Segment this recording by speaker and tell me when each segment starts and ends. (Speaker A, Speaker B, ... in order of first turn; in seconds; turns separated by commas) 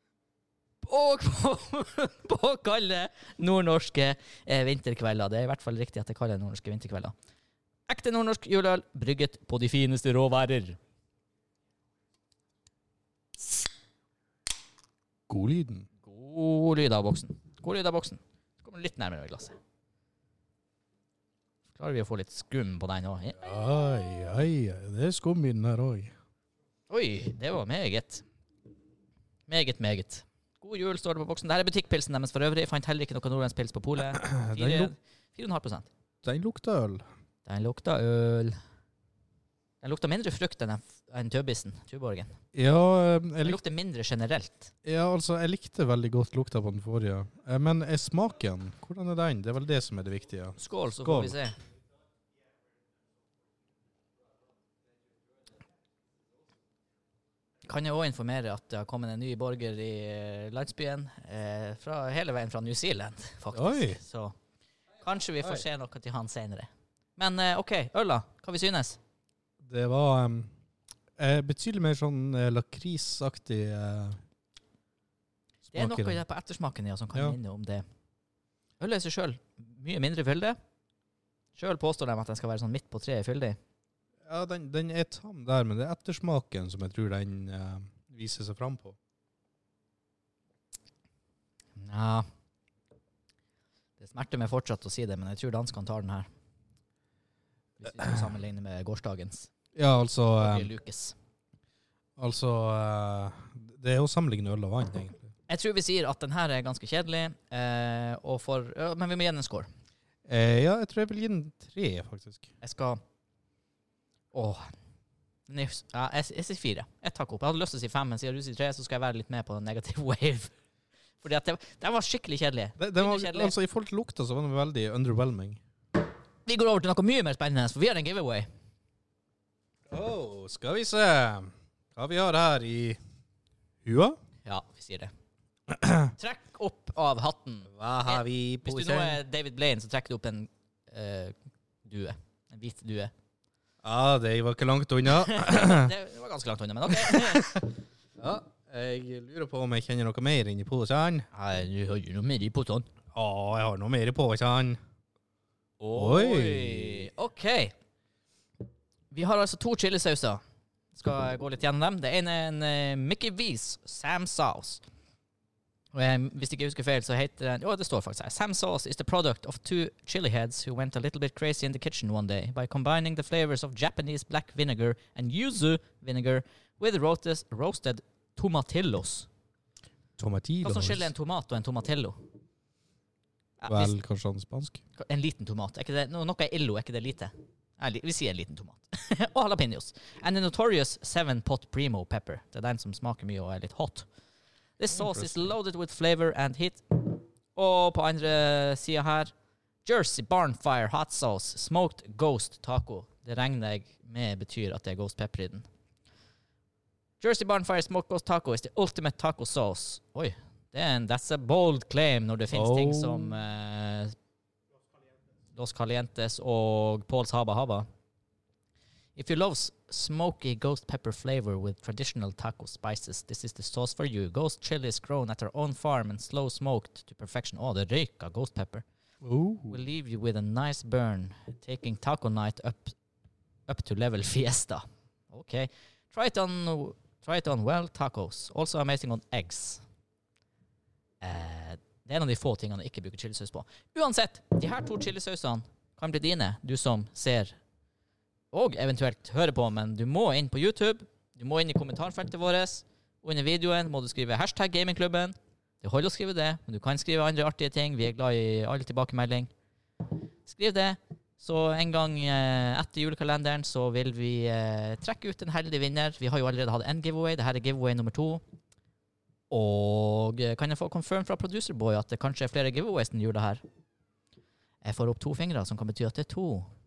Speaker A: 0.8-7.1, Speaker A: 7.9-10.8, Speaker B: 15.3-15.9, Speaker A: 16.0-19.6, Speaker A: 21.8-23.4, Speaker B: 23.4-26.1, Speaker A: 26.9-28.2, Speaker A: 29.5-35.9, Speaker B: 34.1-34.9, Speaker B: 36.2-37.1, Speaker A: 37.5-38.6, Speaker A: 39.8-42.4, Speaker B: 42.5-43.6, Speaker A: 43.4-44.7, Speaker B: 44.9-51.4, Speaker A: 50.6-51.6, Speaker A: 57.6-64.3, Speaker B: 63.5-64.0, Speaker A: 65.0-69.0, Speaker B: 69.6-70.5, Speaker B: 71.2-74.2, Speaker B: 75.7-76.2, Speaker A: 75.7-77.8, Speaker A: 78.8-80.6, Speaker A: 81.6-83.6, Speaker B: 84.2-89.0, Speaker A: 91.8-92.3, Speaker A: 94.0-96.3, Speaker A: 97.8-99.5, Speaker B: 99.8-100.7, Speaker A: 100.4-101.2, Speaker B: 102.2-105.3, Speaker A: 105.5-109.7, Speaker B: 110.3-112.5, Speaker A: 112.6-113.0, Speaker A: 114.3-114.7, Speaker A: 115.5-120.5, Speaker A: 121.2-123.5, Speaker B: 122.8-125.6, Speaker A: 126.5-128.5, Speaker B: 129.9-133.0, Speaker B: 133.8-134.2, Speaker A: 134.4-135.1, Speaker B: 135.7-136.1, Speaker A: 136.2-143.1, Speaker B: 137.7-139.2, Speaker B: 143.8-145.9, Speaker A: 145.1-147.6, Speaker B: 147.0-147.7, Speaker B: 148.2-151.3, Speaker A: 151.3-152.9, Speaker B: 153.1-154.8, Speaker A: 155.8-157.8, Speaker B: 155.9-157.1, Speaker A: 159.1-160.4, Speaker A: 161.0-164.8, Speaker A: 165.9-179.3, Speaker B: 180.2-181.1, Speaker A: 180.6-182.2, Speaker A: 183.6-183.9, Speaker B: 183.7-184.8, Speaker A: 185.0-194.1, Speaker A: 194.8-199.3, Speaker B: 194.9-195.6, Speaker A: 199.8-205.7, Speaker A: 207.2-214.2, Speaker B: 212.5-213.4, Speaker A: 215.5-217.9, Speaker A: 219.2-228.8, Speaker B: 229.2-229.8, Speaker A: 229.7-233.0, Speaker A: 233.7-239.8, Speaker A: 241.2-247.6, Speaker A: 248.5-259.5, Speaker A: 260.5-268.4, Speaker A: 269.5-273.6, Speaker A: 274.8-276.7